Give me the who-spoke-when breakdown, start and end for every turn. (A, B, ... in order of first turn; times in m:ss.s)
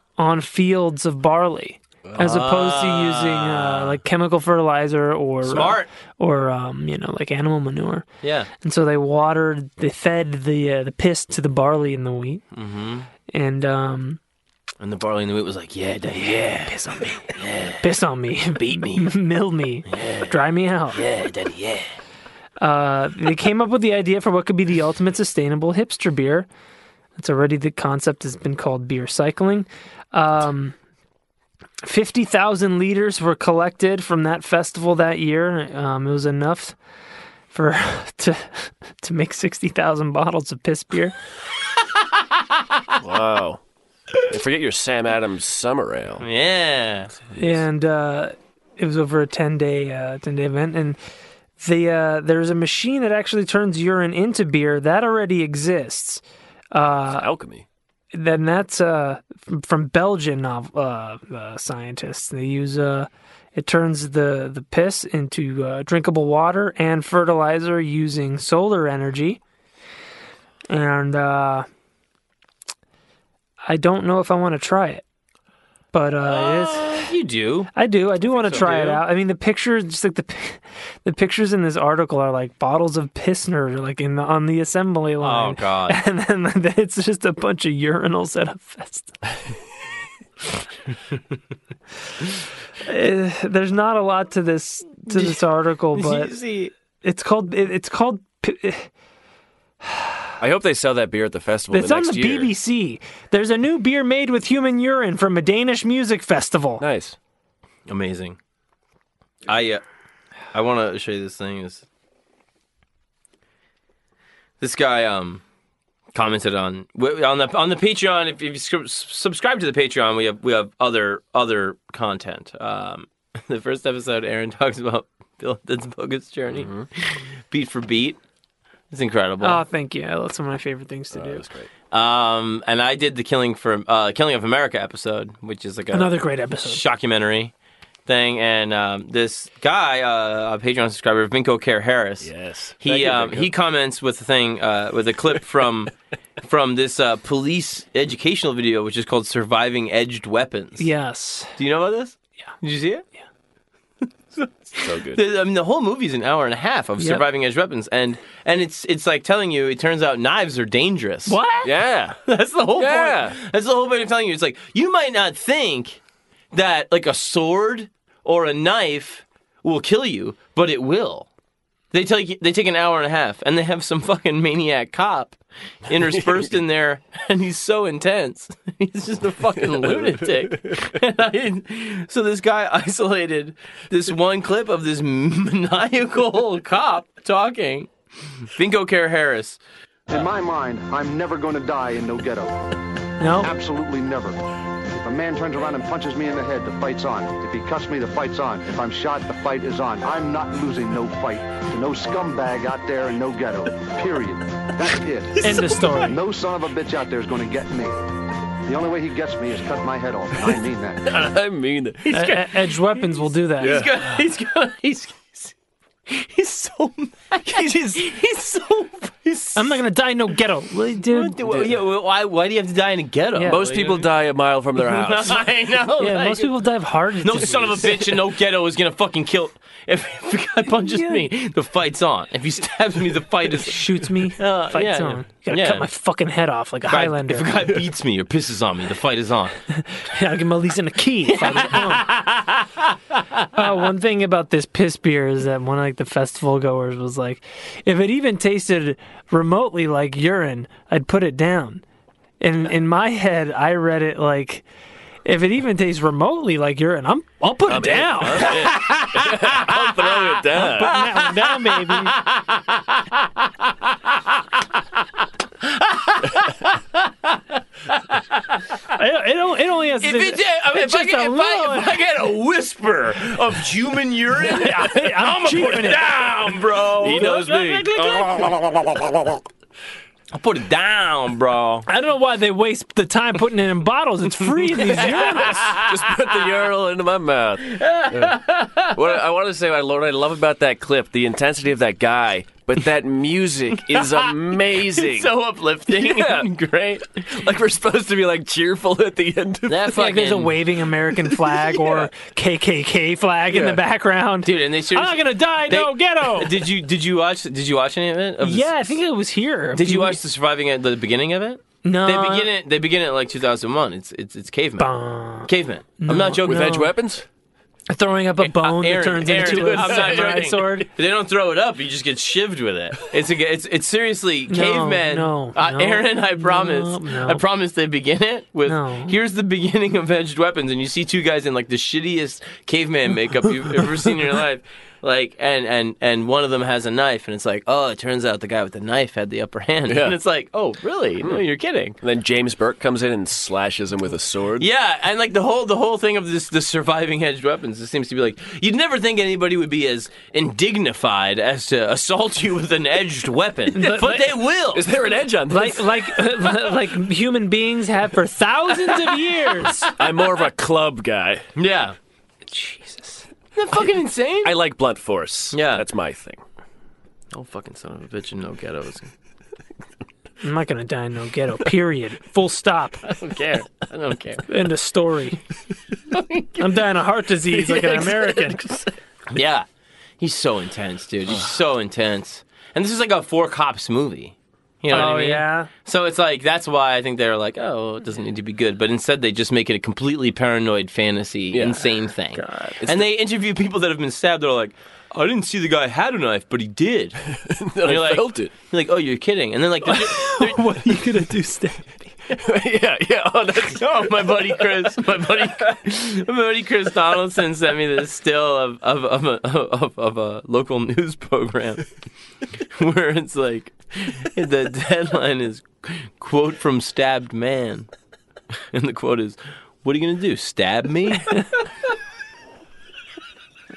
0:00.2-0:08.0 A
0:02.0-0:02.4 B
0:02.2-0:04.0 C
0:05.5-0:05.9 C
0:08.2-0:08.5 C
0:08.6-0:12.4 A
0:12.5-0:13.1 C
0:13.3-0:14.2 A
0:14.8-0:17.9 C
0:16.2-0:21.0 A
0:18.5-0:19.1 C
0:19.9-0:20.3 C
0:20.9-0:21.9 C
0:22.6-0:26.5 A
0:27.2-0:30.7 A
0:31.8-0:36.8 A
0:37.5-0:41.1 A
0:43.0-0:43.6 B
0:44.3-0:46.2 B
0:46.2-0:47.1 C
0:47.3-0:47.6 B
0:47.4-0:51.0 A
0:51.6-0:56.2 A
0:56.7-0:57.3 A
0:57.1-0:57.6 B
0:58.1-1:09.4 A
1:10.7-1:11.7 A
1:13.6-1:15.0 A
1:15.9-1:17.1 A
1:16.2-1:19.0 C
1:17.7-1:29.2 A
1:25.2-1:26.0 C
1:32.8-1:36.3 A
1:35.1-1:36.7 C
1:37.0-1:38.9 A
1:40.4-1:42.5 B
1:41.7-1:46.8 A
1:46.8-1:47.2 B
1:47.9-1:48.4 C
1:49.5-1:49.8 C
1:50.5-1:51.8 C
1:54.6-1:55.4 C
1:56.1-2:08.2 C
2:06.5-2:06.8 B
2:08.9-2:09.6 C
2:09.4-2:11.4 A
2:11.1-2:11.7 B
2:11.9-2:17.5 C
2:15.9-2:16.8 A
2:18.0-2:25.9 C
2:22.2-2:23.5 B
2:26.4-2:30.9 C
2:30.8-2:31.5 A
2:31.6-2:33.0 C
2:34.3-2:41.4 C
2:34.8-2:35.2 B
2:41.3-2:41.7 A
2:41.6-2:42.2 B
2:42.3-2:46.0 C
2:42.8-2:43.4 B
2:46.5-2:51.3 C
2:51.9-3:09.6 C
2:55.9-2:56.6 B
2:59.6-3:00.9 B
3:10.1-3:12.5 D
3:13.2-3:13.5 A
3:13.4-3:14.4 D
3:15.0-3:27.9 D
3:25.4-3:26.0 C
3:25.4-3:26.2 A
3:28.6-3:31.0 D
3:30.4-3:32.3 B
3:32.1-3:33.8 A
3:32.1-3:35.5 C
3:33.6-3:34.0 B
3:36.1-3:39.8 C
3:39.5-3:41.4 A
3:41.1-3:44.1 C
3:41.4-3:41.7 B
3:43.4-3:45.4 B
3:44.7-3:46.5 C
3:46.0-3:48.2 A
3:47.2-3:55.8 C
3:50.8-3:51.3 A
3:53.6-3:57.5 A
3:56.9-3:59.6 C
3:59.8-4:02.1 A
4:01.3-4:03.4 C
4:03.5-4:11.8 A
4:12.4-4:14.6 A
4:15.2-4:18.7 A
4:17.7-4:20.9 B
4:18.3-4:23.5 C
4:20.5-4:22.2 A
4:25.6-4:28.6 C
4:28.9-4:31.9 A
4:30.0-4:37.4 C
4:34.6-4:36.0 A
4:37.0-4:38.0 B
4:37.0-4:38.5 A
4:38.0-4:39.2 C
4:40.3-4:41.8 C
4:41.9-4:45.7 A
4:44.7-4:46.0 C
4:45.6-4:55.3 B
4:47.6-4:49.0 C
4:53.8-4:57.2 C
4:55.9-4:56.5 B
4:57.2-4:59.9 B
4:59.7-5:00.6 C
4:59.9-5:06.6 A
5:03.5-5:03.8 B
5:04.4-5:09.0 C
5:08.4-5:10.2 A
5:09.7-5:16.8 C
5:11.8-5:12.5 A
5:14.8-5:16.9 A
5:16.1-5:17.2 B
5:17.9-5:20.9 A
5:18.4-5:42.0 C
5:19.4-5:20.5 B
5:24.5-5:27.4 A
5:28.6-5:29.1 A
5:39.9-5:40.2 B
5:42.0-5:44.7 B
5:44.6-5:54.9 C
5:53.7-5:54.3 A
5:54.7-5:56.0 B
5:55.5-5:59.9 A
6:00.0-6:01.4 B
6:01.6-6:02.0 C
6:02.5-6:03.2 A
6:03.5-6:04.5 C
6:04.4-6:06.4 B
6:05.5-6:05.8 C
6:07.3-6:09.1 C
6:10.4-6:13.0 A
6:13.0-6:14.5 C
6:14.5-6:15.4 A
6:16.1-6:16.8 C
6:16.6-6:18.7 A
6:17.8-6:18.8 B
6:19.3-6:19.6 C
6:20.2-6:37.2 C
6:24.9-6:25.7 A
6:31.5-6:31.9 B
6:32.3-6:32.8 A
6:32.8-6:33.1 B
6:37.4-6:38.5 B
6:37.8-6:40.9 C
6:39.9-6:42.1 A
6:42.4-6:43.8 B
6:43.7-6:51.9 C
6:52.7-6:57.9 C
6:58.7-7:01.4 C